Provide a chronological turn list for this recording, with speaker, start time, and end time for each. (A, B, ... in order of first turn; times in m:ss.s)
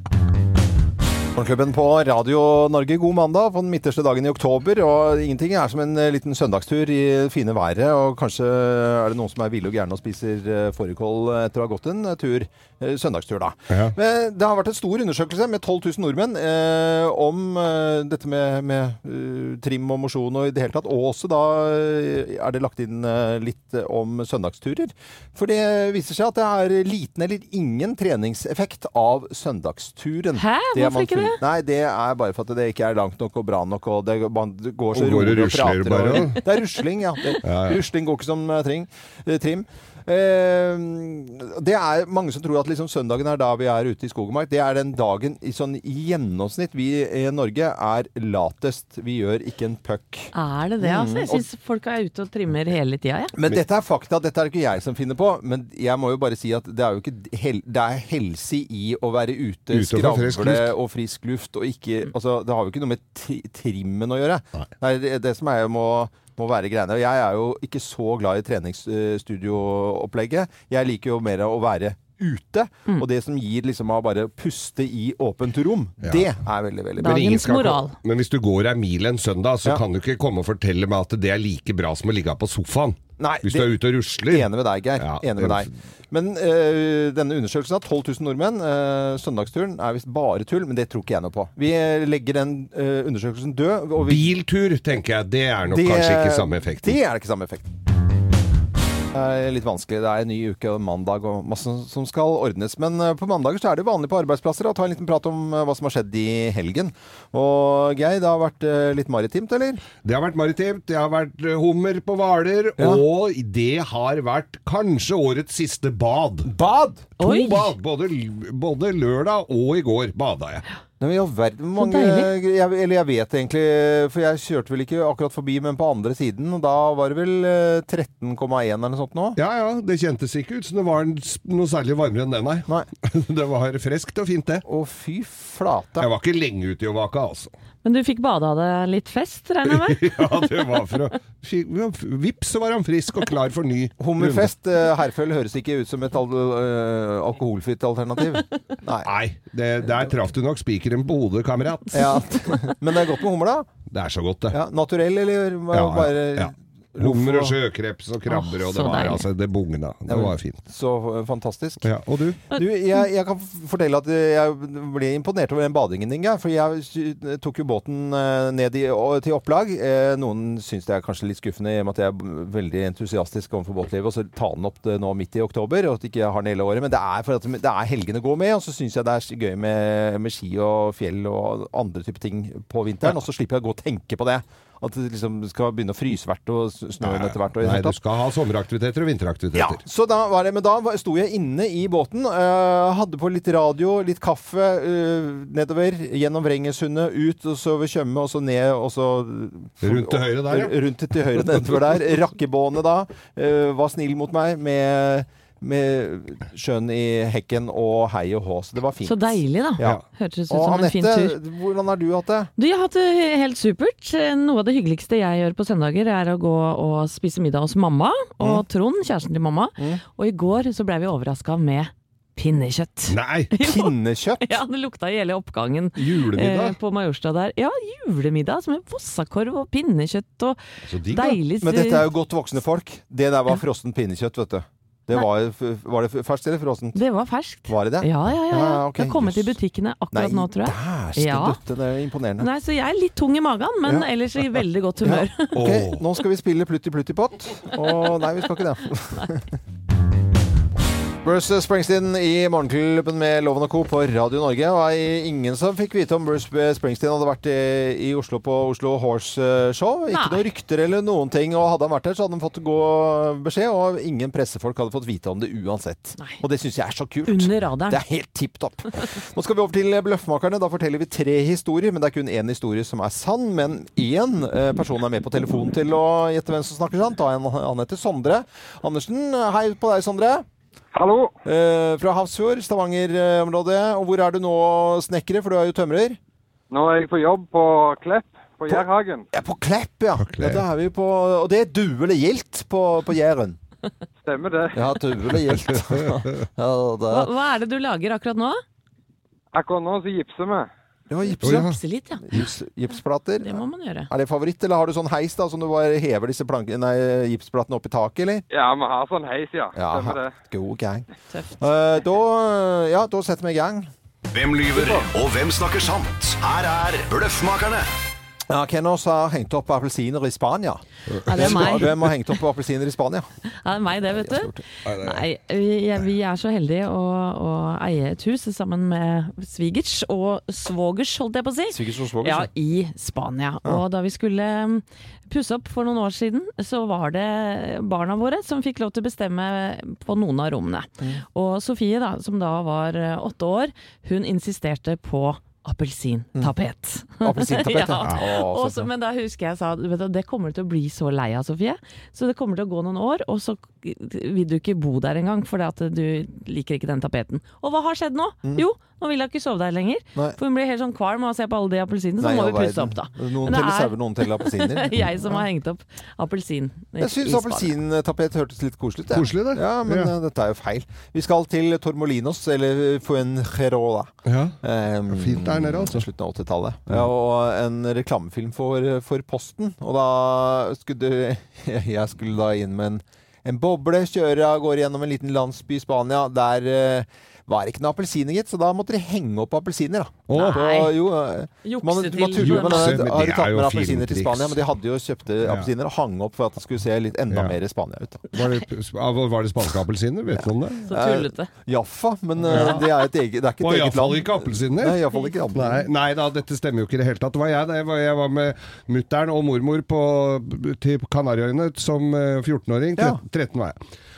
0:01.4-0:51.5 A
0:30.4-0:31.4 B
0:34.9-0:36.4 C
0:37.4-0:37.8 C
0:50.3-0:53.3 B
0:53.3-1:17.2 A
0:59.7-1:00.7 C
1:17.0-1:18.0 B
1:17.0-1:25.7 C
1:23.2-1:34.3 A
1:34.0-1:37.0 C
1:35.7-1:37.7 A
1:39.1-1:49.8 A
1:50.0-1:56.5 C
1:56.5-1:57.1 A
1:57.2-2:00.6 C
1:57.2-1:57.7 B
2:01.0-2:09.4 A
2:01.8-2:02.3 B
2:09.4-2:14.6 C
2:14.7-2:16.1 A
2:16.0-2:17.5 C
2:17.8-2:20.7 B
2:19.7-2:24.5 C
2:24.0-2:29.1 A
2:29.0-2:32.2 C
2:29.8-2:30.1 A
2:31.9-2:33.7 A
2:32.0-2:32.5 B
2:33.9-2:34.6 C
2:34.5-2:37.6 A
2:35.7-2:40.6 C
2:38.3-2:39.3 B
2:40.1-2:41.9 A
2:41.8-2:42.4 C
2:42.5-3:08.0 A
3:07.0-3:09.8 C
3:09.6-3:32.5 A
3:19.8-3:20.7 C
3:29.0-3:31.4 B
3:32.6-3:52.1 B
3:43.1-3:43.5 C
3:43.6-3:44.6 A
3:46.0-3:46.8 C
3:50.9-3:51.4 C
3:51.6-3:57.0 A
3:57.0-4:01.6 B
3:57.7-3:59.6 A
4:00.1-4:02.5 A
4:02.4-4:05.8 B
4:05.0-4:09.5 A
4:05.6-4:06.0 C
4:11.2-4:40.4 A
4:20.1-4:20.4 B
4:27.3-4:28.0 B
4:40.9-4:41.3 D
4:41.4-4:46.2 A
4:46.7-4:49.2 D
4:48.7-4:53.6 A
4:50.2-4:50.6 C
4:54.2-4:54.8 D
4:54.7-4:57.3 A
4:55.5-4:56.2 C
4:57.1-4:58.6 B
4:59.5-5:00.7 D
5:01.1-5:08.4 A
5:01.3-5:02.2 B
5:01.4-5:01.8 C
5:03.4-5:04.1 B
5:08.5-5:10.3 D
5:09.8-5:11.1 A
5:11.3-5:11.7 B
5:11.6-5:13.9 A
5:14.3-5:17.9 E
5:14.8-5:15.1 D
5:18.5-5:23.3 A
5:21.1-5:22.0 C
5:21.2-5:22.2 B
5:23.6-6:07.8 B
5:24.1-5:24.6 A
5:24.8-5:25.2 C
5:31.7-5:32.5 A
5:47.2-5:48.9 A
6:02.2-6:05.4 A
6:07.0-6:38.2 A
6:09.1-6:10.1 C
6:14.3-6:14.6 C
6:15.1-6:16.1 C
6:30.3-6:30.6 C
6:30.3-6:30.9 B
6:31.6-6:33.0 B
6:32.4-6:34.6 C
6:35.4-6:35.7 C
6:37.3-6:37.6 C
6:38.3-6:40.9 C
6:38.3-6:38.6 B
6:40.4-6:45.9 A
6:40.8-6:41.5 B
6:42.5-6:43.0 C
6:42.5-6:42.8 B
6:43.6-6:45.0 C
6:45.5-6:53.8 C